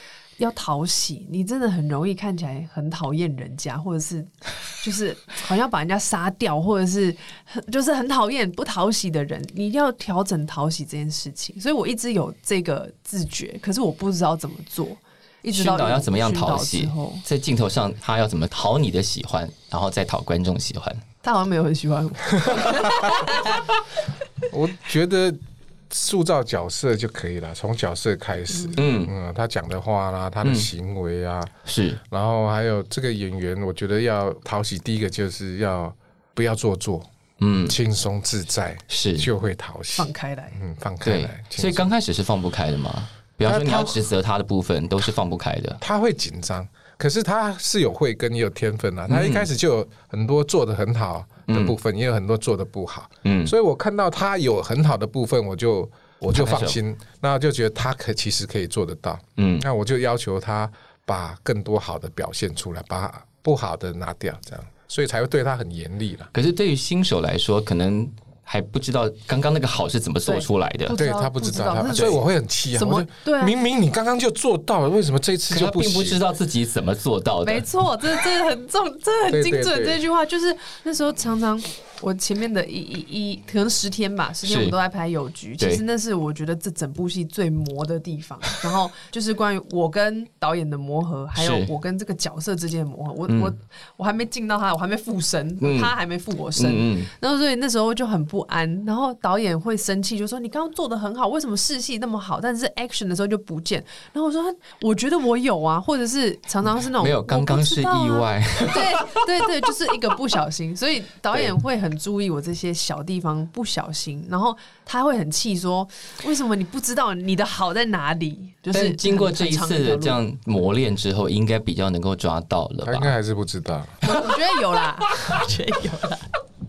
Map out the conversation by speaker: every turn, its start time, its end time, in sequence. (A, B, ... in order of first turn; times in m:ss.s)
0:00.4-0:17.2 A
0:15.5-0:21.0 B
0:21.2-0:23.6 A
0:24.5-0:25.4 C
0:25.9-0:37.1 C
0:28.5-0:28.8 A
0:28.8-0:29.1 B
0:30.4-0:30.7 B
0:31.6-0:32.0 B
0:37.4-0:37.8 B
0:37.6-0:41.9 C
0:38.9-0:39.3 B
0:39.9-0:40.6 A
0:41.0-0:45.8 B
0:43.4-0:44.0 C
0:45.8-1:06.3 C
0:49.1-0:49.5 B
0:51.5-0:51.7 B
0:53.2-0:53.5 B
0:56.3-0:56.8 B
0:59.4-0:59.6 B
1:06.3-1:11.0 B
1:10.2-1:12.2 A
1:10.9-1:16.2 C
1:12.7-1:13.5 A
1:15.5-1:17.6 B
1:17.4-2:00.2 A
1:19.3-1:20.0 C
1:24.4-1:24.8 B
1:31.4-1:31.7 B
1:33.3-1:33.5 B
1:35.6-1:35.9 B
1:36.6-1:37.1 B
1:46.8-1:49.4 B
1:58.7-2:03.1 B
2:02.8-2:04.1 C
2:04.0-2:06.3 A